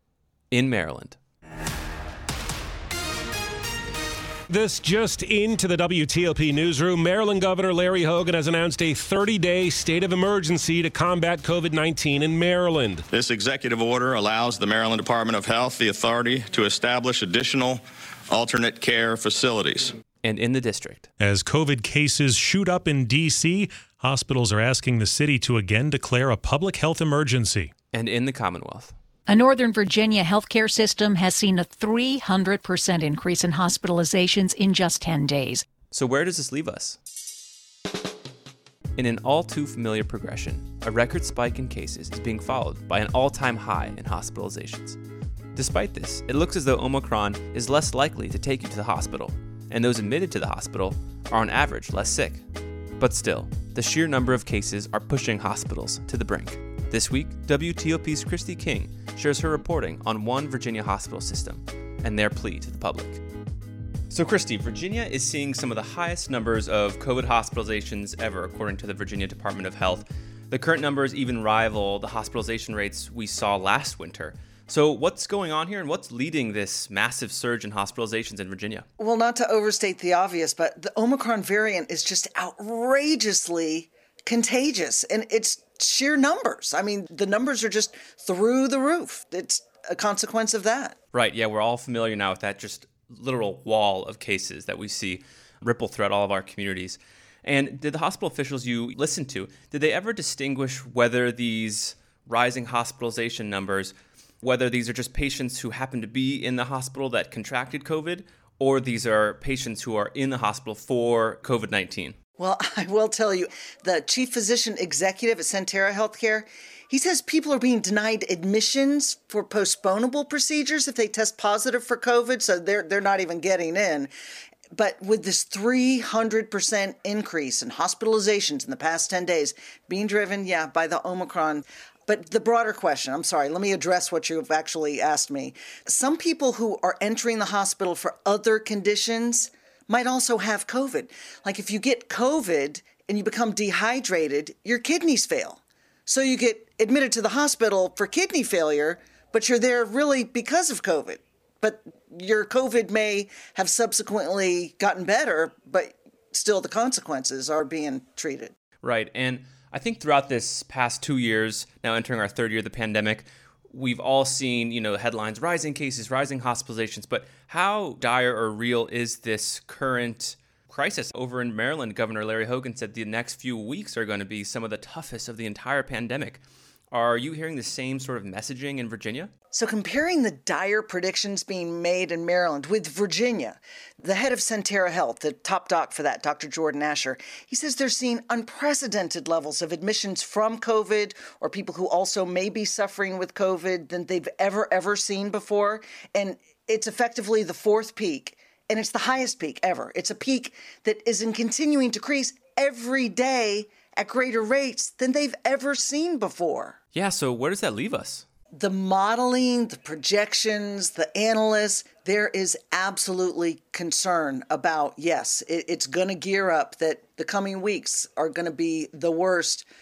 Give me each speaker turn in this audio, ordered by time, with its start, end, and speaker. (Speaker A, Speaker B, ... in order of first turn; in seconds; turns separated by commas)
Speaker A: 0.5-1.2, Speaker B: 4.5-13.0, Speaker C: 13.1-19.9, Speaker A: 20.2-21.1, Speaker D: 21.2-27.7, Speaker A: 27.9-28.9, Speaker E: 29.3-35.6, Speaker A: 35.9-37.0, Speaker A: 39.0-45.0, Speaker A: 45.5-52.4, Speaker A: 53.0-63.2, Speaker A: 64.1-78.8, Speaker F: 79.0-90.9, Speaker A: 91.1-112.2, Speaker F: 112.4-124.1, Speaker F: 124.7-158.5, Speaker A: 158.8-176.4, Speaker A: 176.9-179.3, Speaker F: 179.5-206.8, Speaker A: 206.9-208.2, Speaker F: 208.5-219.7